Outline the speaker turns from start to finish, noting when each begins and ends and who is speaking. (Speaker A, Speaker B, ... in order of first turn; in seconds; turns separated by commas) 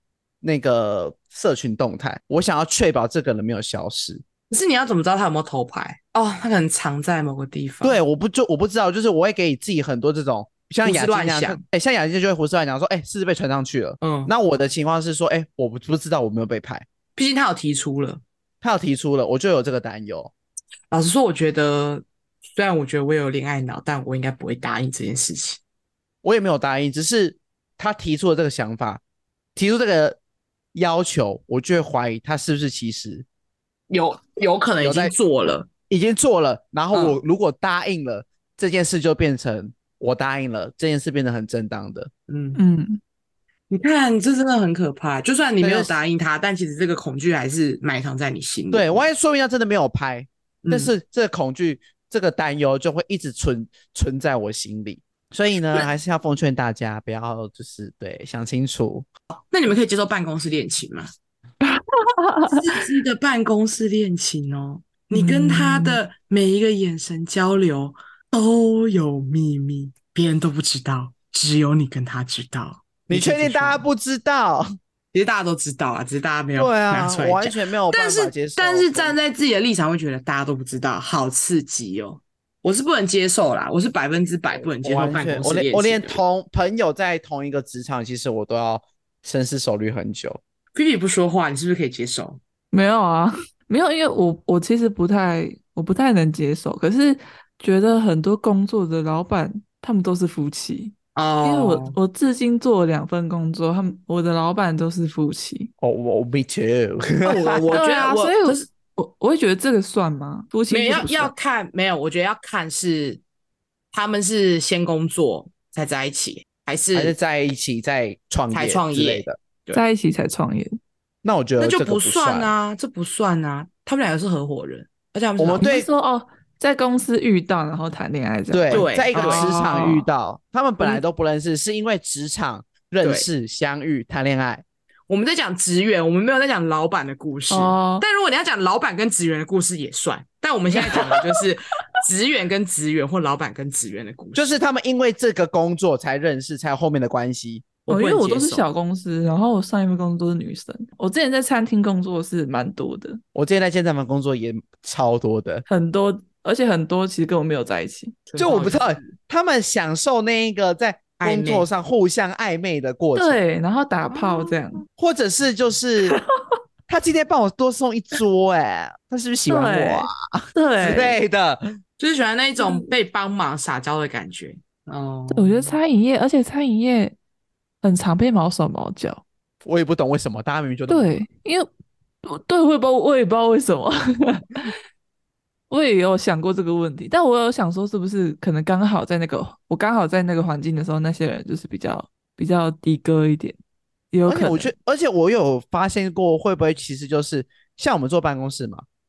Speaker A: 0.4-4.2, Speaker B: 4.5-8.0, Speaker A: 7.8-16.9, Speaker B: 10.8-11.6, Speaker B: 14.0-14.3, Speaker B: 17.1-18.2, Speaker A: 18.6-20.3, Speaker B: 20.9-25.6, Speaker A: 26.2-29.0, Speaker A: 29.6-30.2, Speaker A: 30.7-33.2, Speaker B: 33.9-35.7, Speaker A: 34.8-35.1, Speaker A: 35.9-42.1, Speaker B: 36.9-37.2, Speaker B: 42.3-42.6, Speaker C: 42.5-43.0, Speaker B: 43.7-49.1, Speaker A: 45.6-45.9, Speaker A: 48.7-59.1, Speaker B: 50.6-50.9, Speaker B: 59.5-61.1, Speaker C: 61.6-62.6, Speaker B: 62.5-73.8, Speaker C: 65.1-66.0, Speaker A: 73.1-74.7, Speaker B: 75.1-86.2, Speaker A: 76.5-79.2, Speaker A: 84.8-90.4, Speaker B: 90.7-92.4, Speaker C: 92.7-105.7, Speaker B: 101.1-102.0, Speaker A: 105.8-107.8, Speaker B: 107.2-108.6, Speaker C: 107.7-111.3, Speaker B: 110.7-113.2, Speaker B: 113.9-117.1, Speaker A: 116.9-119.3, Speaker B: 118.5-119.8, Speaker C: 119.7-120.8, Speaker A: 121.2-122.5, Speaker B: 121.6-125.7, Speaker A: 125.4-125.9, Speaker C: 125.6-130.1, Speaker A: 128.5-134.6, Speaker B: 128.7-129.7, Speaker B: 133.0-133.3, Speaker B: 135.1-144.5, Speaker C: 137.5-138.0, Speaker A: 144.3-147.7, Speaker B: 147.8-148.6, Speaker C: 147.9-153.2, Speaker A: 153.3-155.6, Speaker C: 155.7-158.2, Speaker B: 158.3-159.1, Speaker A: 158.4-163.4, Speaker B: 161.2-161.7, Speaker C: 163.1-164.8, Speaker B: 164.1-164.5, Speaker A: 165.0-166.2, Speaker A: 166.9-171.6, Speaker C: 169.5-171.2, Speaker B: 172.0-175.8, Speaker C: 172.6-172.9, Speaker C: 175.3-177.2, Speaker C: 177.8-179.2, Speaker A: 179.6-181.2, Speaker C: 180.9-181.7, Speaker C: 182.2-184.7, Speaker C: 185.7-193.6, Speaker C: 194.1-194.7, Speaker A: 194.2-198.8